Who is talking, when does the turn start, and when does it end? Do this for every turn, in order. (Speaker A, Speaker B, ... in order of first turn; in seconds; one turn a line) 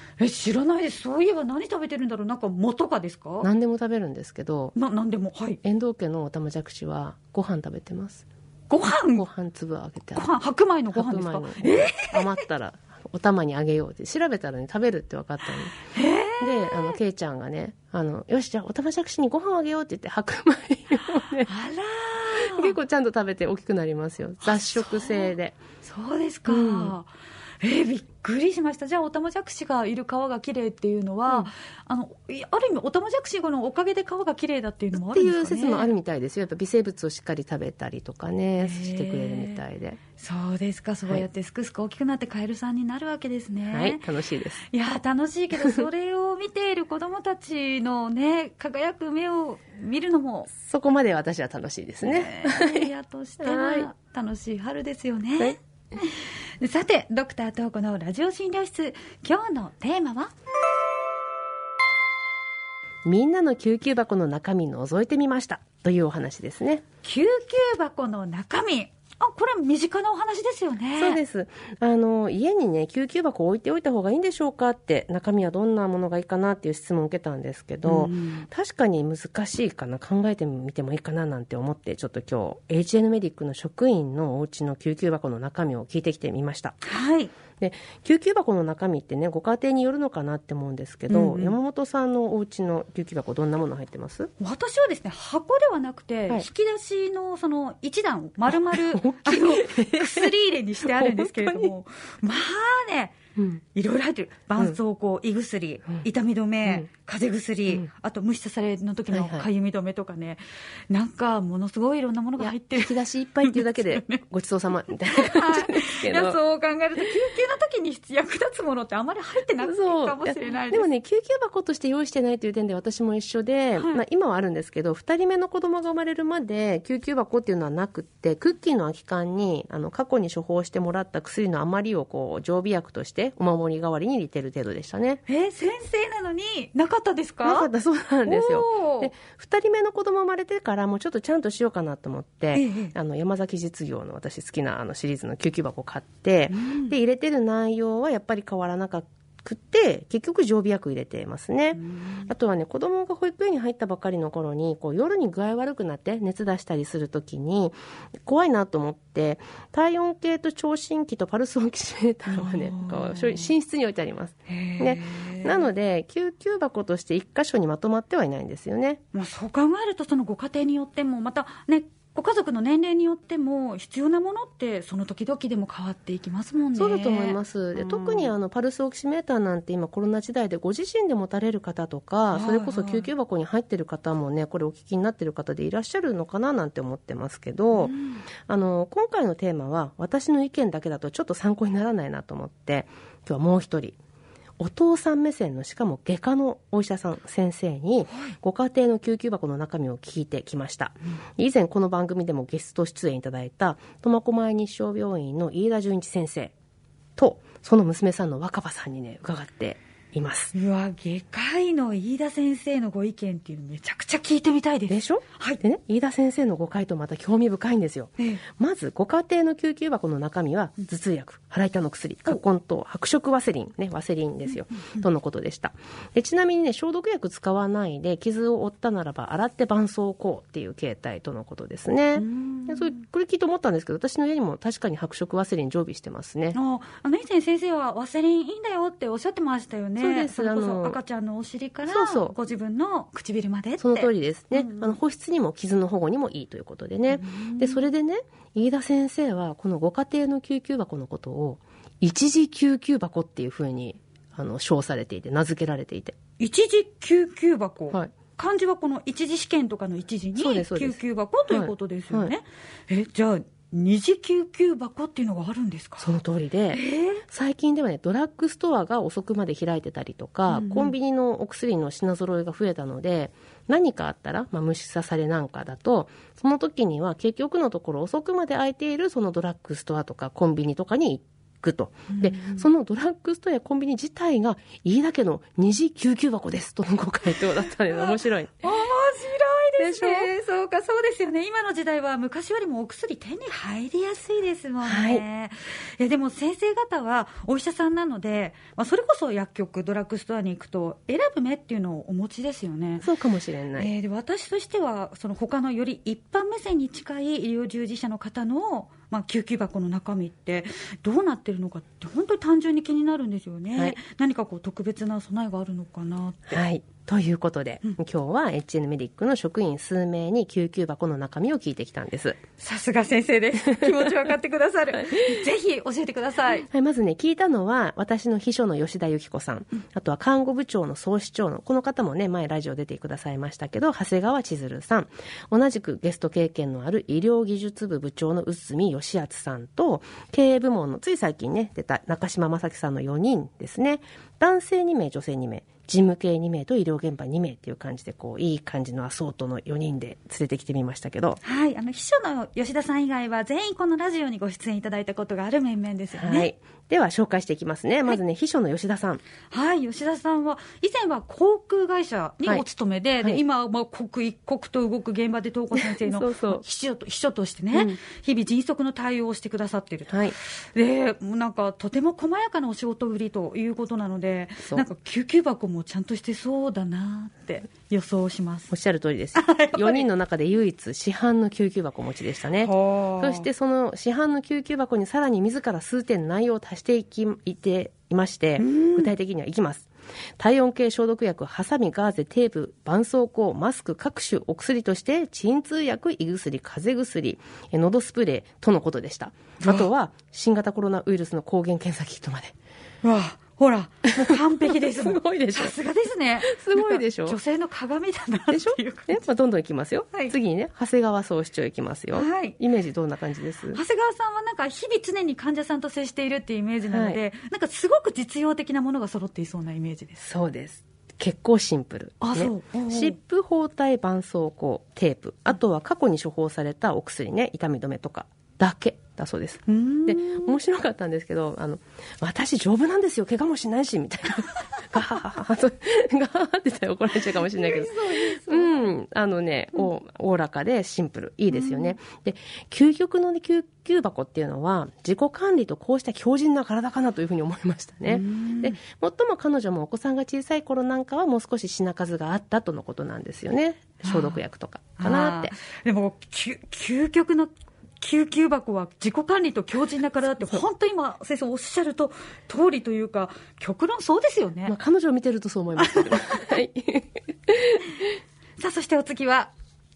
Speaker A: 0.2-3.5
Speaker B: 3.4-4.8
Speaker A: 4.8-5.6
Speaker B: 5.6-8.3
Speaker A: 8.7-9.3
Speaker B: 9.2-10.3
Speaker A: 10.2-12.4
Speaker B: 10.9-15.8
Speaker A: 15.9-17.0
Speaker B: 16.4-21.5
Speaker A: 21.5-22.7
Speaker B: 22.3-25.6
Speaker A: 24.4-27.1
Speaker B: 26.5-26.9
Speaker A: 27.6-35.9
Speaker B: 34.9-40.0
Speaker A: 38.6-39.6
Speaker A: 40.2-44.0
Speaker B: 43.7-44.6
Speaker A: 44.7-50.5
Speaker B: 50.6-52.9
Speaker A: 52.0-60.3
Speaker B: 53.4-53.9
Speaker B: 63.0-66.8
Speaker A: 67.0-71.2
Speaker B: 71.0-86.8
Speaker A: 77.8-78.5
Speaker A: 86.8-87.3
Speaker B: 87.6-94.3
Speaker A: 91.1-91.6
Speaker A: 94.4-103.2
Speaker B: 98.5-101.7
Speaker B: 103.4-103.6
Speaker A: 103.7-114.2
Speaker B: 109.1-109.5
Speaker B: 112.4-116.4
Speaker A: 115.1-120.9
Speaker B: 119.6-135.2
Speaker A: 135.3-137.7
Speaker B: 137.4-169.0
Speaker A: 138.3-139.1
Speaker A: 142.5-142.9
Speaker A: 146.5-146.9
Speaker A: 151.7-152.3
Speaker A: 162.3-163.5
Speaker A: 164.5-165.7
Speaker A: 169.1-178.3
Speaker B: 176.8-187.9
Speaker A: 182.3-183.1
Speaker A: 187.7-188.3
Speaker B: 188.5-194.0
Speaker B: 194.6-206.5
Speaker B: 207.2-210.5
Speaker A: 210.5-215.6
Speaker B: 214.9-236.6
Speaker A: 218.2-218.4
Speaker A: 232.2-233.0
Speaker A: 236.5-245.0
Speaker B: 240.0-241.0
Speaker B: 241.9-242.3
Speaker B: 243.8-256.2
Speaker A: 247.1-247.8
Speaker A: 256.4-266.1
Speaker B: 260.4-261.0
Speaker B: 261.5-262.3
Speaker B: 266.0-288.6
Speaker A: 266.7-267.2
Speaker A: 270.5-270.9
Speaker A: 282.1-282.7
Speaker A: 287.9-303.1
Speaker B: 289.8-290.3
Speaker B: 294.8-295.2
Speaker B: 303.0-303.9
Speaker A: 303.8-316.6
Speaker B: 316.5-322.4
Speaker A: 322.6-326.7
Speaker B: 325.0-325.4
Speaker B: 326.7-351.4
Speaker A: 351.4-356.5
Speaker B: 356.2-359.2
Speaker A: 359.5-378.7
Speaker B: 365.7-366.6
Speaker B: 367.7-368.0
Speaker B: 370.1-370.4
Speaker B: 378.7-402.5
Speaker A: 379.4-380.1
Speaker A: 382.6-383.5
Speaker A: 388.6-389.1
Speaker A: 399.6-399.9
Speaker A: 403.0-409.2
Speaker B: 404.2-405.8
Speaker B: 406.4-407.4
Speaker B: 408.5-413.8
Speaker A: 412.1-412.6
Speaker A: 413.7-420.2
Speaker B: 416.9-417.2
Speaker B: 420.2-455.5
Speaker A: 422.2-423.2
Speaker A: 429.7-430.6
Speaker A: 437.1-438.9
Speaker A: 441.5-442.0
Speaker A: 448.1-448.8
Speaker A: 454.0-454.4
Speaker A: 455.0-464.7
Speaker B: 464.7-467.9
Speaker A: 465.8-466.6
Speaker A: 468.6-469.5